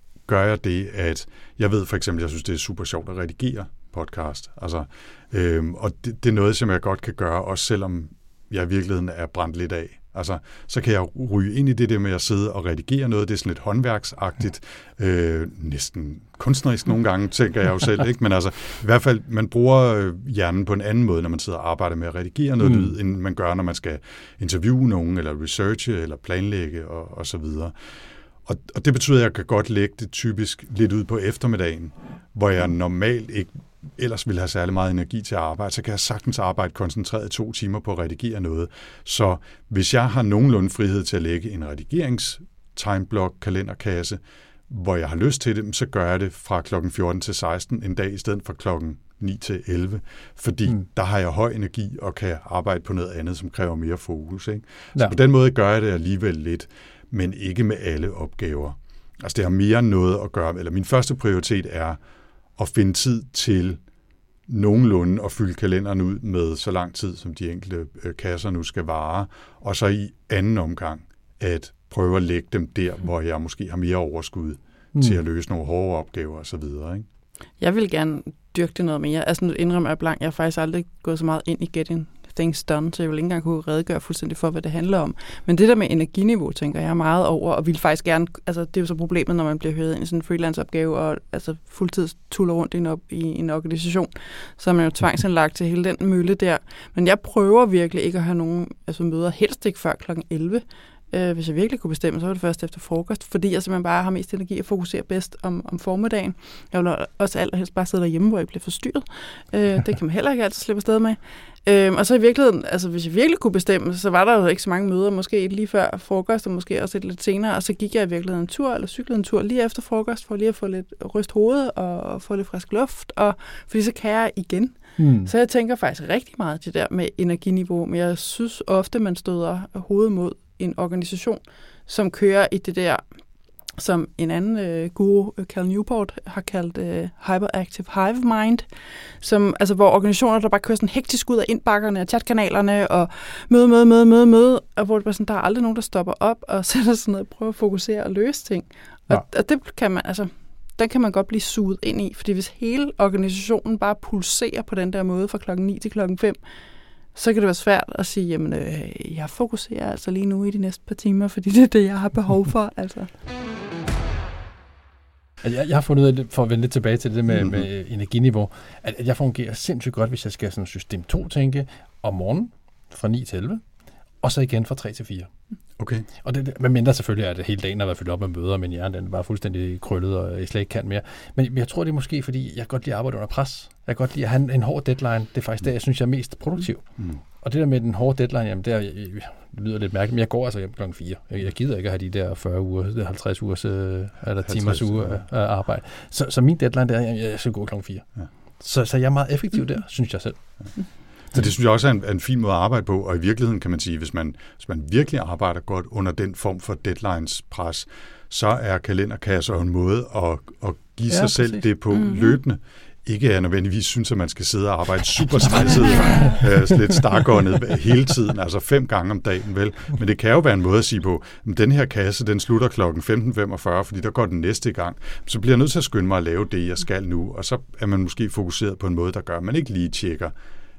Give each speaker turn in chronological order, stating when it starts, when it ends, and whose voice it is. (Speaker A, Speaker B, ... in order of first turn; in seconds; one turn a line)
Speaker A: 0.2-62.0
Speaker B: 22.6-22.9
Speaker A: 62.6-63.8
Speaker A: 64.5-77.0
Speaker C: 77.6-133.0
Speaker B: 125.0-125.3
Speaker C: 133.8-138.7
Speaker C: 139.2-156.4
Speaker C: 157.1-163.1
Speaker B: 165.4-173.6
Speaker A: 167.3-167.7
Speaker B: 174.2-175.3
Speaker A: 175.8-176.1
Speaker B: 176.2-186.8
Speaker B: 187.4-198.1
Speaker A: 194.4-195.2
Speaker B: 198.6-200.4
Speaker A: 201.3-230.3
Speaker B: 211.1-211.6
Speaker C: 211.9-212.4
Speaker B: 215.9-216.3